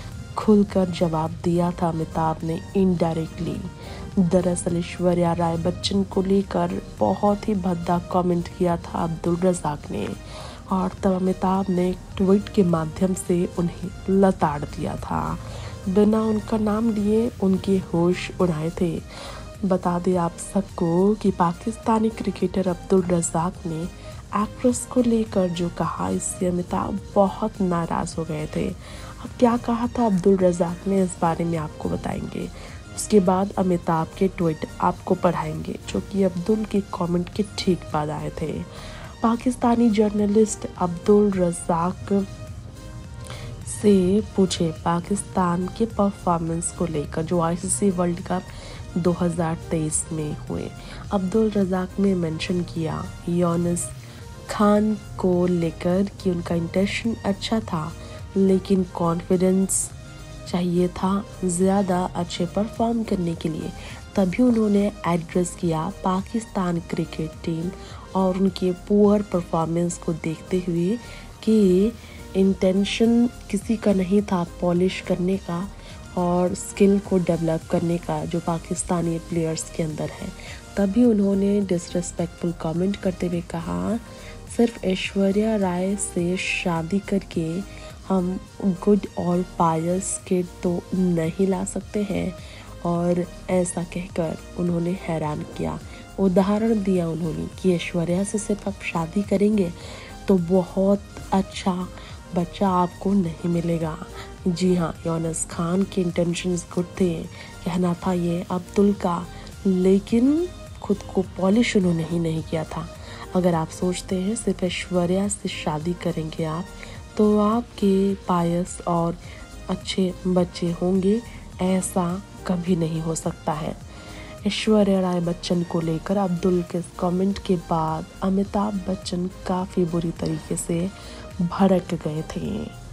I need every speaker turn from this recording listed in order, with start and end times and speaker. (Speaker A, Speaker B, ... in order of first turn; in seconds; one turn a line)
Speaker A: 0.3-3.7
Speaker A: 4.2-10.2
Speaker A: 10.7-19.1
Speaker A: 19.6-38.7
Speaker A: 39.2-42.3
Speaker A: 43.7-48.5
Speaker A: 49.0-54.0
Speaker A: 54.5-59.9
Speaker A: 60.5-123.8
Speaker A: 124.4-132.8